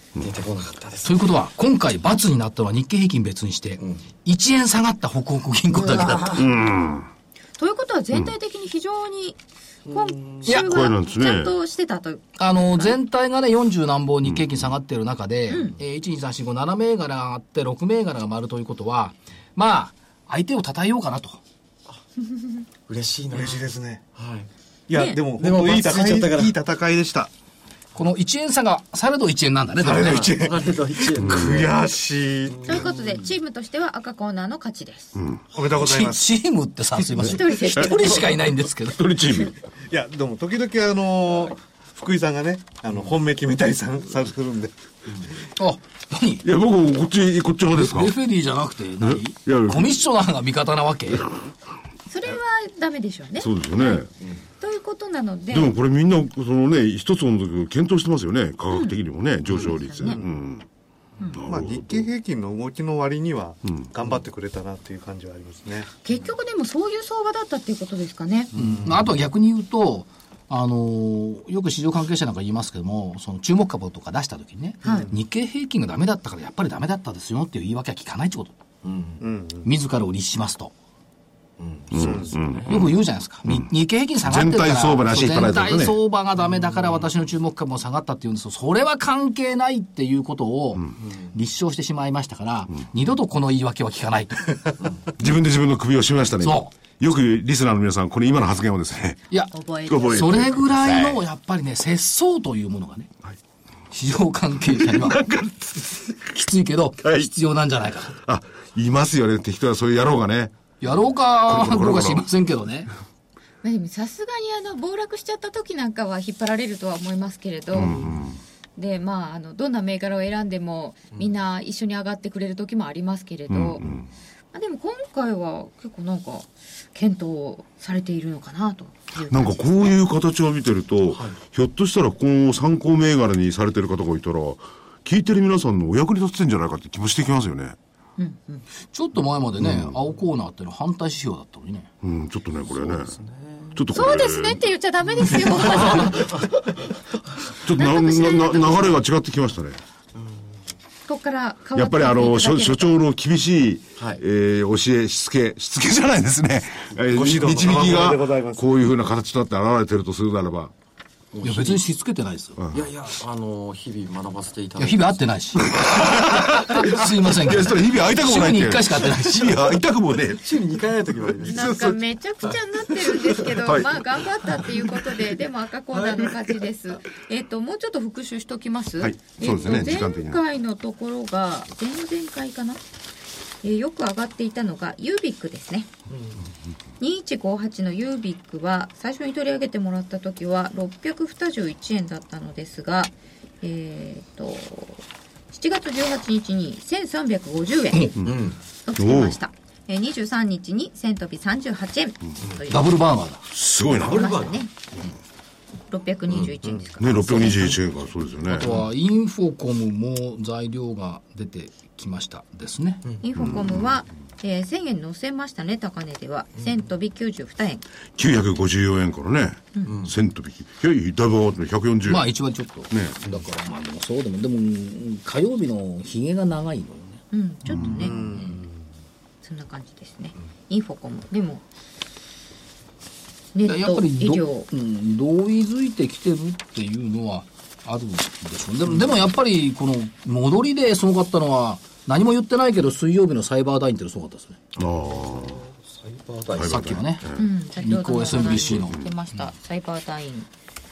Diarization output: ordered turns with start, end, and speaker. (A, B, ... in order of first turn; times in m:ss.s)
0:00.2-0:01.3 A
0:01.0-0:06.4 B
0:05.7-0:06.5 C
0:06.3-0:07.1 D
0:07.6-0:13.0 C
0:09.9-0:10.4 A
0:10.4-0:11.6 D
0:12.4-0:21.4 B
0:15.5-0:15.8 C
0:22.9-0:24.5 A
0:23.3-0:24.0 E
0:24.9-0:27.3 E
0:24.9-0:25.2 C
0:25.4-0:26.6 A
0:28.0-0:30.3 B
0:29.8-0:32.9 E
0:30.0-0:31.8 A
0:31.2-0:31.6 D
0:32.5-0:33.2 A
0:32.7-0:35.2 C
0:35.2-0:35.4 D
0:35.5-0:36.3 E
0:35.7-0:39.1 B
0:37.2-0:38.3 C
0:37.8-0:38.1 D
0:38.8-0:39.6 D
0:39.9-0:44.7 E
0:45.6-0:46.4 B
0:46.4-0:48.2 D
0:47.7-0:51.3 B
0:49.0-0:50.0 D
0:52.1-0:54.0 C
0:53.4-0:54.1 D
0:54.6-0:55.8 C
0:55.5-1:00.7 D
0:58.7-0:59.0 C
0:59.6-1:00.2 C
1:01.3-1:02.1 D
1:01.4-1:05.9 E
1:06.0-1:08.5 C
1:08.6-1:18.6 B
1:08.6-1:09.0 E
1:14.8-1:15.1 C
1:18.8-1:19.2 A
1:19.2-1:19.7 E
1:19.6-1:20.7 B
1:21.6-1:22.9 A
1:21.9-1:23.7 D
1:22.0-1:22.4 E
1:22.7-1:34.8 B
1:24.2-1:26.0 D
1:35.2-1:39.3 D
1:36.4-1:36.7 B
1:39.5-1:40.6 C
1:39.9-1:41.2 D
1:40.1-1:43.1 B
1:43.9-1:48.2 B
1:44.8-1:45.6 D
1:47.0-1:47.3 D
1:48.1-1:50.6 D
1:50.8-1:52.9 B
1:51.4-1:52.3 D
1:53.6-1:58.0 C
1:57.7-1:58.4 D
1:58.8-2:03.8 C
2:03.5-2:04.1 D
2:04.5-2:10.0 C
2:09.3-2:17.8 D
2:18.2-2:18.7 C
2:18.9-2:21.9 B
2:19.6-2:20.0 D
2:22.0-2:23.2 D
2:22.7-2:23.8 A
2:23.7-2:24.6 D
2:23.9-2:26.2 C
2:25.6-2:26.2 D
2:25.7-2:26.5 A
2:27.5-2:29.8 D
2:27.8-2:29.0 C
2:31.1-2:33.0 C
2:31.8-2:40.7 D
2:34.0-2:34.2 A
2:37.1-2:38.6 E
2:41.3-2:41.8 A
2:41.4-2:42.6 B
2:42.6-2:42.8 D
2:42.7-2:45.2 A
2:44.8-2:49.6 B
2:45.8-2:50.5 D
2:50.3-2:51.7 A
2:51.4-2:52.0 D
2:51.5-3:02.8 C
2:53.6-2:54.0 D
2:59.0-3:00.4 D
3:03.6-3:05.9 C
3:07.0-3:18.1 C
3:18.3-3:18.6 A
3:18.8-3:23.0 C
3:19.0-3:19.4 D
3:22.7-3:23.4 B
3:23.5-3:24.3 D
3:24.0-3:24.6 A
3:24.1-3:24.7 C
3:25.9-3:28.0 C
3:27.0-3:28.8 D
3:28.5-3:33.0 B
3:33.2-3:37.8 C
3:33.4-3:33.9 D
3:38.2-3:42.3 D
3:39.9-3:40.1 A
3:42.1-3:47.2 B
3:42.9-3:43.2 D
3:47.3-3:48.6 C
3:48.0-3:48.7 E
3:49.4-3:51.6 C
3:53.5-3:54.7 C
3:53.6-4:04.6 B
4:04.8-4:05.6 D
4:04.8-4:07.0 A
4:06.5-4:07.4 D
4:06.7-4:09.0 B
4:07.4-4:10.5 C
4:08.3-4:09.1 D